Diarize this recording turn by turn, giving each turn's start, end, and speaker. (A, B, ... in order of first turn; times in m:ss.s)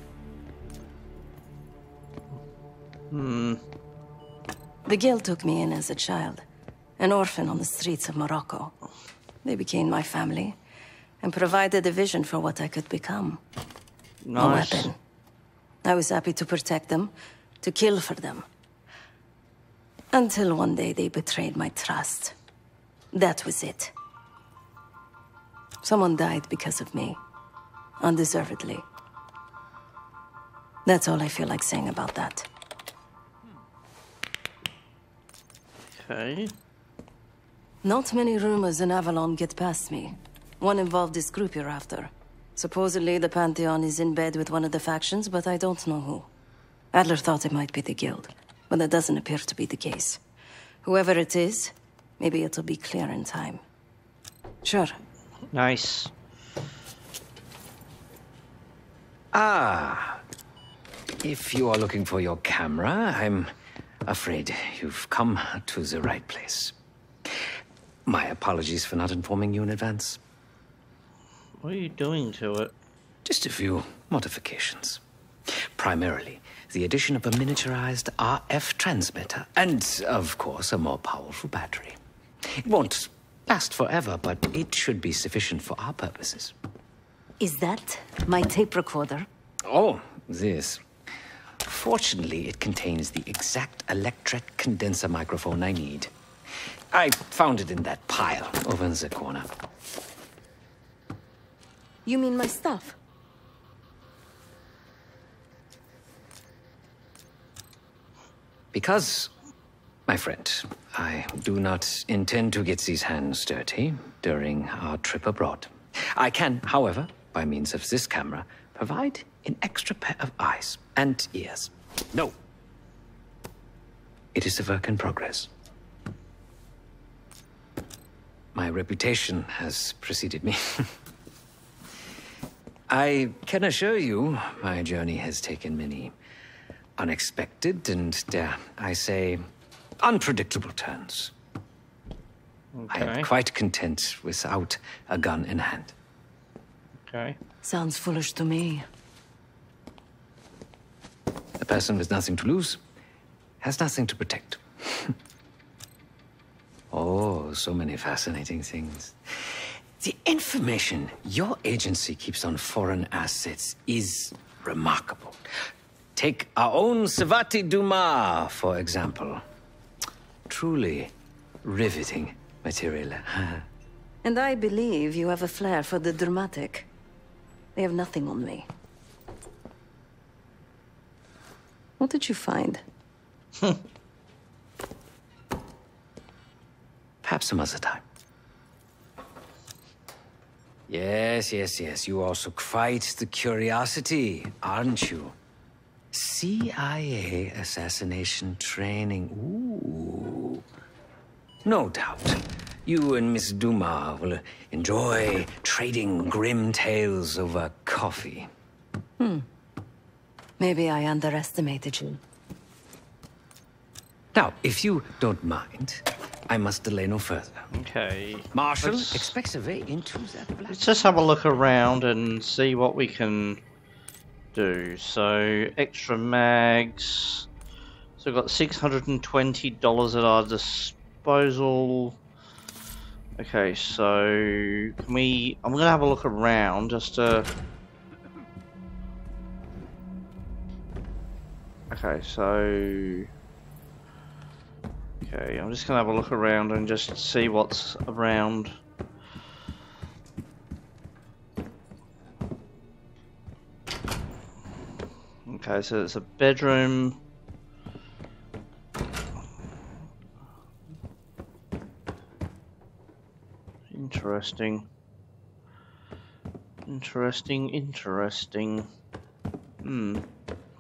0:03.1-0:03.6 A
0:04.9-0:06.4 B
0:07.0-0:08.8 B
0:09.4-0:10.6 B
0:11.2-0:13.4 B
0:14.2-0:14.9 A
0:14.4-0:15.0 B
0:15.8-0:17.1 B
0:17.6-0:18.5 B
0:20.1-0:22.4 B
0:23.1-0:23.9 B
0:25.8-0:27.2 B
0:28.0-0:28.8 B
0:30.9-0:32.5 B
0:36.0-0:36.5 A
0:37.8-0:46.3 B
0:46.9-0:50.2 B
0:50.8-0:53.6 B
0:54.6-0:55.0 B
0:55.5-0:56.1 A
0:59.3-1:00.2 C
1:01.2-1:03.5 C
1:04.1-1:06.8 C
1:08.1-1:10.2 C
1:11.6-1:12.7 A
1:13.2-1:26.5 C
1:27.4-1:29.3 B
1:29.6-1:30.9 C
1:31.6-1:36.1 C
1:36.9-1:39.5 C
1:42.1-1:43.0 B
1:48.7-1:49.3 C
1:50.1-2:02.3 C
2:04.4-2:05.5 C
2:08.5-2:10.9 C
2:12.9-2:16.2 C
2:17.0-2:19.5 C
2:20.0-2:21.3 C
2:22.7-2:23.3 A
2:22.9-2:25.9 C
2:27.1-2:27.4 A
2:27.6-2:28.9 B
2:31.6-2:32.8 C
2:33.6-2:35.2 C
2:36.9-2:45.4 C
2:46.2-2:49.4 C
2:50.5-2:53.7 C
2:54.2-2:56.9 B
2:57.8-2:58.7 B
3:02.0-3:02.8 B
3:07.2-3:08.0 C
3:10.9-3:15.4 C
3:16.1-3:20.6 C
3:21.6-3:28.5 C
3:29.2-3:29.5 B
3:30.6-3:32.2 B
3:34.3-3:37.7 C
3:37.7-3:39.3 A
3:38.5-3:41.4 C
3:40.7-3:43.6 A
3:44.5-3:47.5 A
3:48.2-3:52.2 A
3:53.4-3:57.5 A
4:01.9-4:03.3 A
4:05.2-4:08.7 A
4:15.5-4:17.2 A
4:23.9-4:24.9 A
4:26.9-4:28.9 A
4:29.8-4:30.2 A